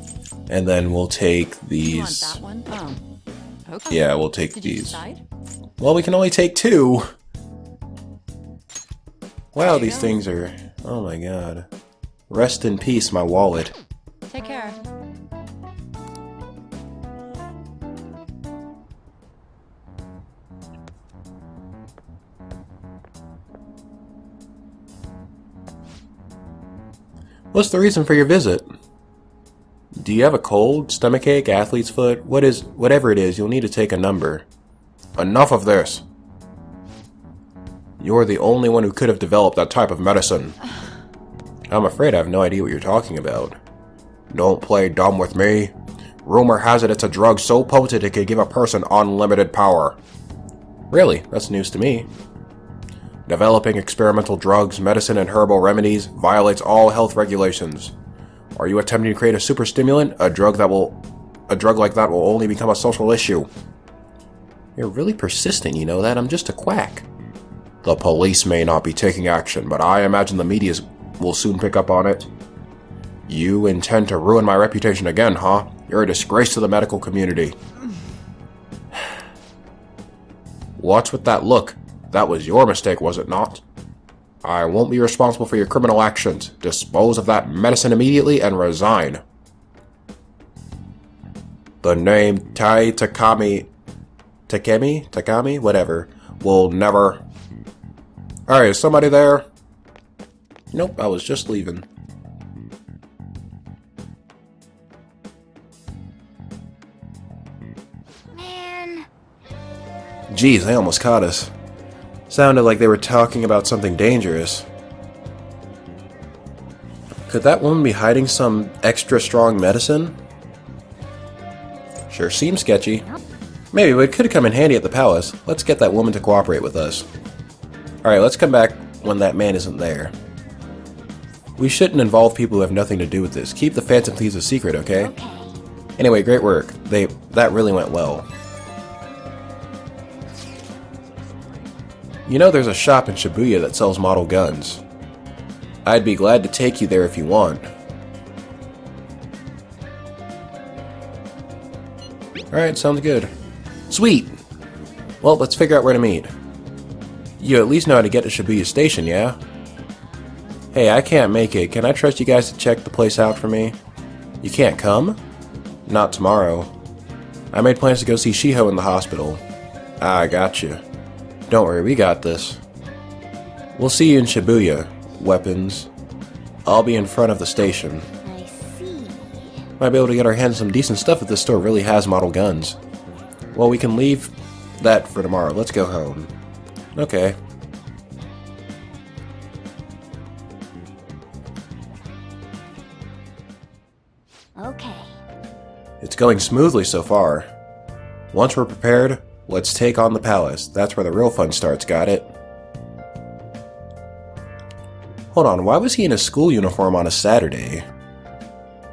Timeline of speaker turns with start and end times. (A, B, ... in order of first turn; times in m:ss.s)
0:00.5-0:02.4 A
0:01.8-0:03.0 B
0:03.7-0:05.2 B
0:03.9-0:05.0 A
0:05.8-0:07.1 A
0:09.5-0:11.7 A
0:09.6-0:10.2 B
0:12.3-0:13.7 A
0:14.3-0:14.8 B
0:27.5-0:28.7 A
0:30.0-0:34.4 A
0:35.2-0:36.0 A
0:38.0-0:40.6 A
0:41.7-0:43.6 A
0:44.3-0:45.7 A
0:46.2-0:50.0 A
0:50.9-0:52.1 A
0:53.3-0:57.9 A
0:58.6-1:03.5 A
1:04.8-1:07.1 A
1:07.8-1:12.3 A
1:13.3-1:17.6 A
1:20.8-1:23.6 A
1:24.4-1:29.2 A
1:31.8-1:33.7 A
1:34.5-1:37.2 A
1:38.5-1:39.4 A
1:40.7-1:41.9 A
1:48.3-1:49.1 C
1:50.3-1:51.5 A
1:52.3-1:54.7 A
1:57.3-2:00.2 A
2:02.1-2:03.1 A
2:03.7-2:07.1 A
2:08.0-2:10.1 A
2:11.6-2:15.1 A
2:14.9-2:15.6 C
2:16.0-2:18.3 A
2:22.3-2:24.8 A
2:25.8-2:27.7 A
2:32.5-2:33.3 A
2:33.9-2:34.4 A
2:35.2-2:36.3 A
2:37.4-2:39.4 A
2:40.7-2:43.8 A
2:44.4-2:45.2 A
2:45.9-2:46.7 A
2:47.5-2:49.4 A
2:50.0-2:50.8 A
2:51.5-2:52.6 A
2:53.8-2:55.9 A
2:56.6-2:58.1 A
2:58.2-2:59.6 C
2:59.8-3:02.8 A
3:03.5-3:06.3 A
3:07.0-3:07.4 A
3:14.6-3:15.2 C
3:16.0-3:17.5 A
3:18.3-3:22.3 A
3:25.3-3:27.8 A